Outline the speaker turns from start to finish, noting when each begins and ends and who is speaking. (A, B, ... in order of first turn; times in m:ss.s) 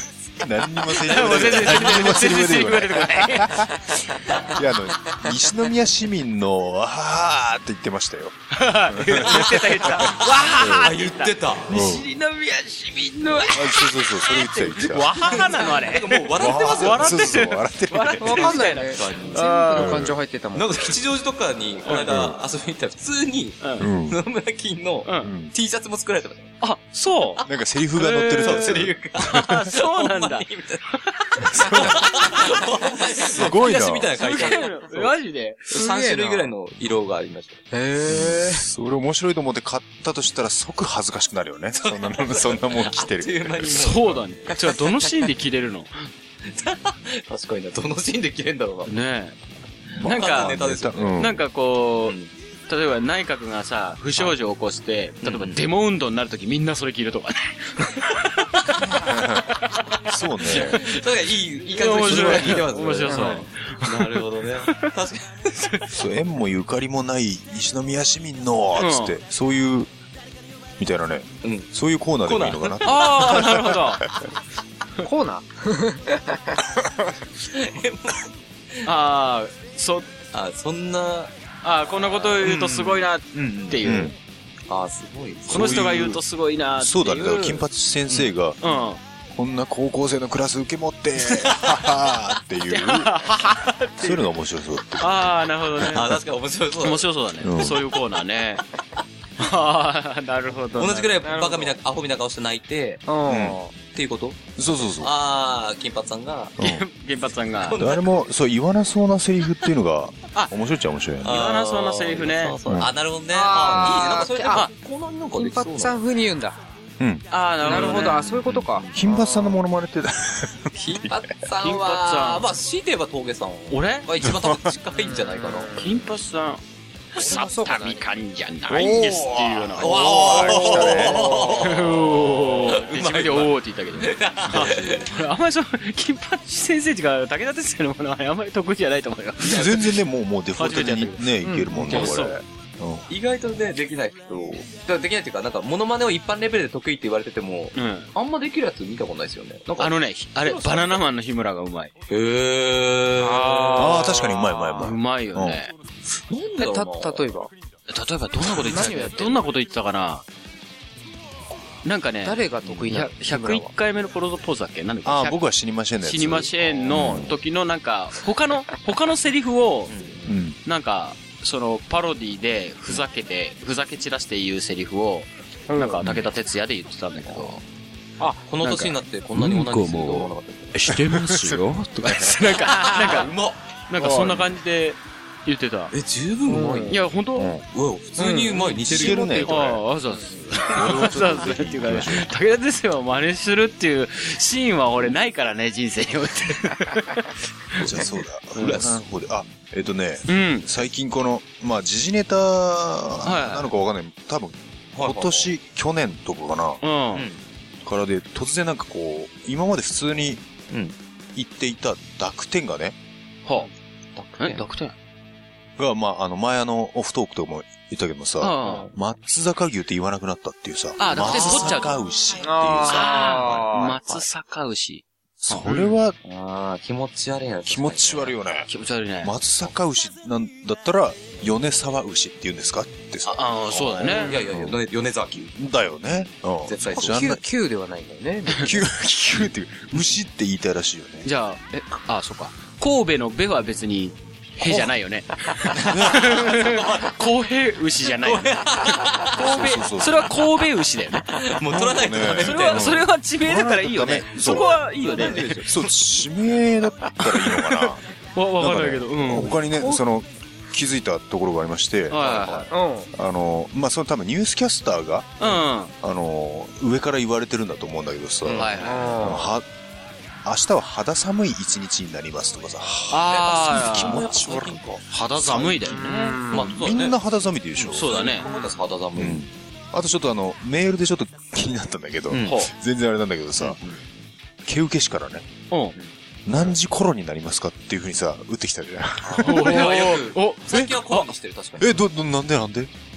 0:00.4-0:10.9 A
0:00.8-0:02.2 B
0:01.0-0:03.6 C
0:08.5-0:20.0 C
0:09.2-0:11.8 B
0:11.7-0:12.1 A
0:13.5-0:15.2 A
0:15.2-0:17.2 B
0:16.3-0:18.6 A
0:18.2-0:20.9 D
0:18.2-0:19.5 B
0:19.7-0:20.2 A
0:20.5-0:26.6 B
0:21.9-0:22.4 A
0:23.8-0:24.2 A
0:25.0-0:25.3 C
0:25.2-0:25.5 A
0:26.6-0:27.4 C
0:27.4-0:29.6 A
0:27.9-0:32.3 C
0:28.4-0:35.1 B
0:31.4-0:32.3 A
0:33.2-0:34.2 A
0:34.1-0:35.8 C
0:35.7-0:37.6 B
0:35.8-0:36.5 D
0:37.7-0:38.6 D
0:38.1-0:43.8 A
0:41.7-0:44.8 B
0:43.6-0:46.1 C
0:46.4-0:48.9 B
0:48.8-0:49.3 C
0:49.9-0:51.4 A
0:50.0-0:50.6 C
0:50.0-0:51.2 B
0:51.2-0:52.2 C
0:52.0-0:52.3 B
0:52.7-0:59.9 C
0:55.2-0:55.6 B
0:59.0-0:59.5 A
1:00.0-1:00.8 A
1:00.4-1:01.0 C
1:00.4-1:05.9 B
1:01.7-1:04.9 C
1:03.1-1:03.4 D
1:05.9-1:09.9 A
1:08.8-1:09.1 C
1:10.8-1:14.0 A
1:11.4-1:11.7 B
1:12.2-1:13.5 B
1:12.8-1:14.0 C
1:15.0-1:16.6 D
1:17.4-1:18.9 B
1:18.8-1:20.1 C
1:20.3-1:21.3 B
1:21.6-1:24.1 C
1:22.0-1:24.0 B
1:23.8-1:24.1 A
1:24.7-1:25.9 B
1:25.4-1:26.2 A
1:25.5-1:27.6 C
1:26.8-1:28.6 A
1:28.6-1:29.0 C
1:29.3-1:33.3 A
1:32.7-1:34.3 C
1:34.0-1:36.2 A
1:35.0-1:36.2 C
1:35.8-1:37.9 B
1:36.8-1:38.6 C
1:37.4-1:37.8 A
1:39.4-1:41.4 C
1:40.8-1:43.0 B
1:41.2-1:41.8 D
1:43.1-1:43.7 D
1:43.2-1:43.6 A
1:43.9-1:46.6 B
1:44.6-1:45.1 A
1:46.6-1:46.9 A
1:46.6-1:47.8 C
1:47.5-1:48.2 B
1:47.8-1:51.5 A
1:51.2-1:56.0 B
1:51.2-1:52.6 C
1:52.6-1:52.9 A
1:53.3-1:54.7 D
1:55.3-1:56.6 D
1:57.0-1:57.3 A
1:57.3-1:58.4 C
1:57.6-1:59.0 B
1:57.6-1:59.6 D
1:58.9-2:01.2 A
2:00.7-2:05.7 B
2:01.6-2:02.5 C
2:03.7-2:04.1 C
2:04.2-2:04.6 A
2:04.9-2:06.1 D
2:05.7-2:06.6 C
2:07.1-2:08.0 D
2:07.1-2:10.8 C
2:08.7-2:11.5 A
2:09.8-2:15.1 B
2:10.3-2:11.6 D
2:11.5-2:20.0 C
2:14.5-2:15.0 A
2:19.4-2:23.0 A
2:19.4-2:19.9 B
2:20.6-2:22.4 C
2:21.4-2:21.8 D
2:23.1-2:31.0 B
2:27.7-2:28.1 C
2:29.8-2:31.9 C
2:32.1-2:34.8 B
2:33.2-2:34.2 D
2:33.3-2:35.7 C
2:33.7-2:35.6 A
2:36.2-2:37.3 B
2:36.6-2:37.5 D
2:37.9-2:40.2 C
2:38.4-2:39.4 D
2:41.8-2:45.4 C
2:42.2-2:43.7 D
2:45.0-2:47.4 A
2:46.0-2:49.9 C
2:49.9-2:50.4 B
2:50.2-2:50.6 A
2:50.6-2:57.6 C
2:55.7-2:56.0 D
2:56.0-2:56.3 A
2:58.2-2:58.9 D
2:58.4-3:00.8 B
2:59.3-3:03.3 C
3:00.9-3:02.5 A
3:02.6-3:03.6 B
3:03.9-3:05.9 C
3:04.0-3:04.6 A
3:05.9-3:07.0 B
3:06.4-3:07.0 D
3:06.9-3:07.5 C
3:07.3-3:07.6 A
3:07.7-3:09.7 B
3:08.2-3:10.3 D
3:08.6-3:09.8 A
3:09.4-3:18.0 C
3:10.6-3:12.3 A
3:17.8-3:26.8 A
3:18.5-3:19.0 B
3:20.3-3:20.7 C
3:23.2-3:23.6 C
3:25.0-3:25.5 B
3:26.8-3:27.3 C
3:27.1-3:27.4 B
3:27.8-3:30.4 A
3:30.7-3:31.0 B
3:31.3-3:33.0 A
3:34.2-3:34.6 B
3:34.4-3:34.9 C
3:35.8-3:43.4 A
3:38.4-3:38.9 C
3:38.6-3:38.9 B
3:41.0-3:42.0 C
3:41.0-3:41.8 B
3:42.4-3:44.0 D
3:42.8-3:44.3 B
3:42.9-3:45.9 C
3:45.4-3:46.2 A
3:46.2-3:48.4 B
3:47.6-3:48.7 A
3:48.7-3:49.3 C
3:49.2-3:54.8 A
3:53.2-3:54.4 C
3:54.2-3:55.5 B
3:55.6-3:57.4 A
3:56.6-3:57.3 B
3:57.0-3:58.8 D
3:58.6-4:01.3 A
4:01.2-4:11.4 C
4:05.8-4:06.4 A
4:06.2-4:07.2 B
4:08.2-4:09.4 B
4:09.4-4:10.3 A
4:09.5-4:09.8 D
4:11.3-4:12.9 B
4:11.7-4:18.0 A
4:12.4-4:15.6 C
4:14.4-4:15.8 B
4:17.2-4:19.5 C
4:18.6-4:29.6 A
4:19.7-4:20.0 D
4:22.1-4:22.7 C
4:22.7-4:23.1 D
4:25.4-4:25.9 C
4:28.4-4:29.3 B
4:28.5-4:29.2 C
4:28.8-4:29.5 D
4:30.4-4:38.3 A
4:33.1-4:34.3 C
4:33.3-4:35.0 B
4:35.1-4:36.5 C
4:35.9-4:36.7 D
4:36.5-4:37.2 B
4:37.8-4:39.4 B
4:37.8-4:38.5 C
4:39.2-4:43.8 A
4:42.3-4:42.6 B
4:42.4-4:42.7 C
4:43.6-4:44.0 B
4:44.6-4:45.5 A
4:45.7-4:45.9 C
4:46.0-4:46.7 B
4:46.4-4:51.0 A
4:49.2-4:52.0 B
4:49.4-4:51.3 C
4:51.8-4:52.9 A